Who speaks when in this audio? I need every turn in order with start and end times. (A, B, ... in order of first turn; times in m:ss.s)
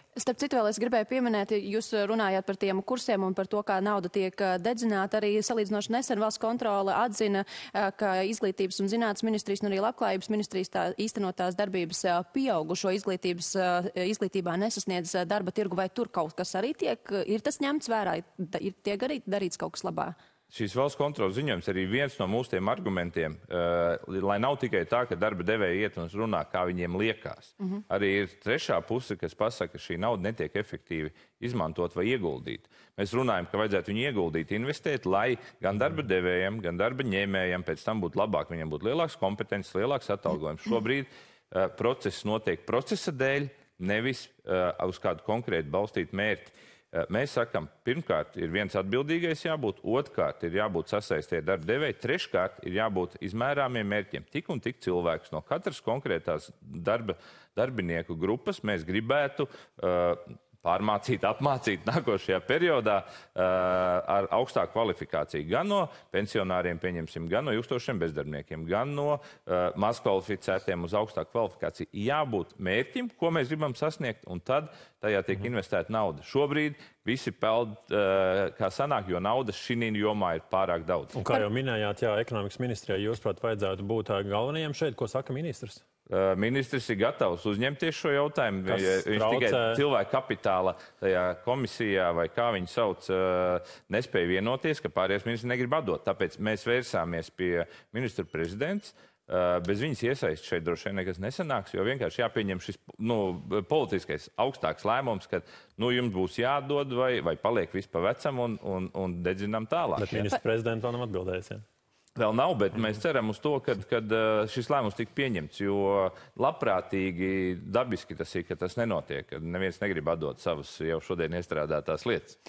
0:00.2-0:20.2 A
0:20.5-1:21.2 B
1:21.2-1:25.8 C
1:26.1-1:50.2 B
1:28.7-1:29.8 C
1:50.0-1:51.6 C
1:52.2-2:02.4 B